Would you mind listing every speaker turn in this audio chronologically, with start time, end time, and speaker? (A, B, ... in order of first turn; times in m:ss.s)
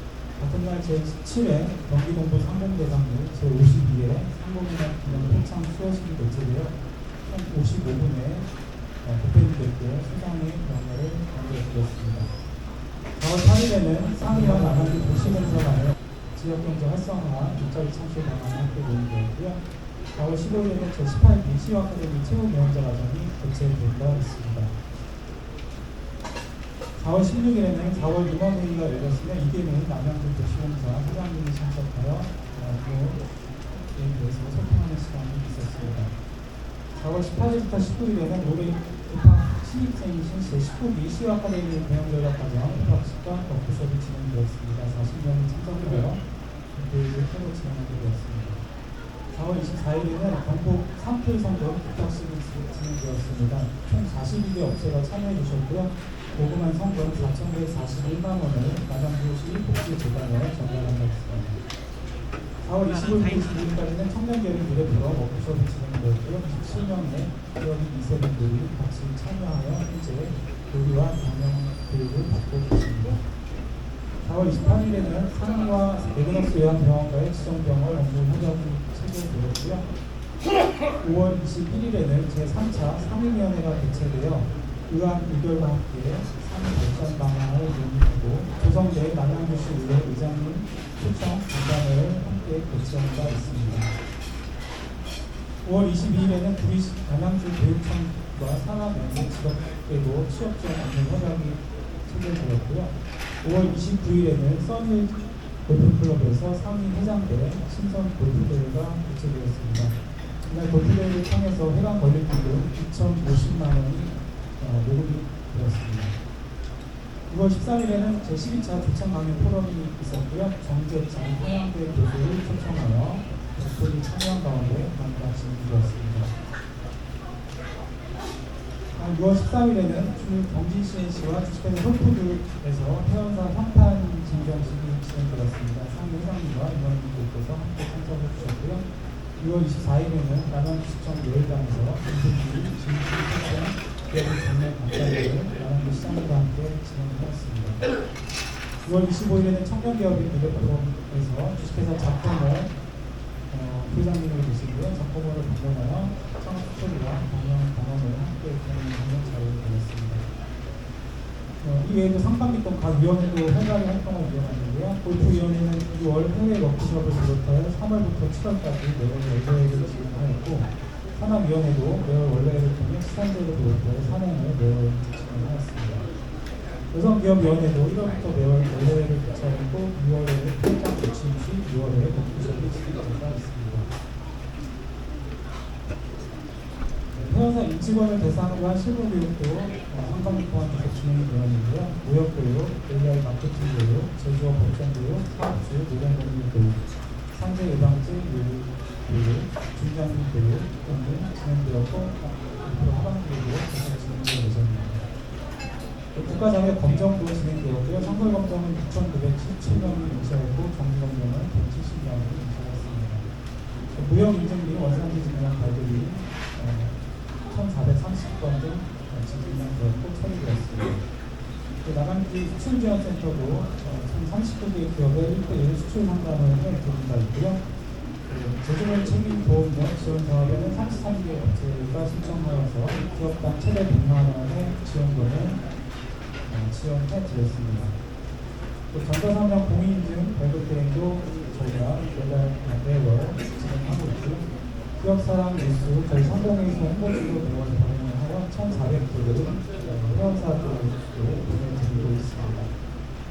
0:00.3-0:12.3 A
0:13.1-0:24.7 A
0:27.0-0:36.2 A
0:36.9-0:48.6 A
0:49.3-1:01.6 A
1:02.6-1:13.3 A
1:14.2-1:19.8 A
1:21.0-1:33.9 A
1:35.6-1:56.2 A
1:57.3-2:06.3 A
2:08.9-2:27.8 A
2:28.8-2:32.8 A
2:33.5-2:40.2 A
2:41.6-2:56.1 A
2:56.9-3:03.9 A
3:07.1-3:16.8 A
3:17.3-3:25.0 A
3:26.1-3:33.3 A
3:33.9-3:41.0 A
3:41.8-3:47.6 A
3:48.3-3:55.6 A
3:56.4-3:58.0 A
3:58.9-4:12.7 A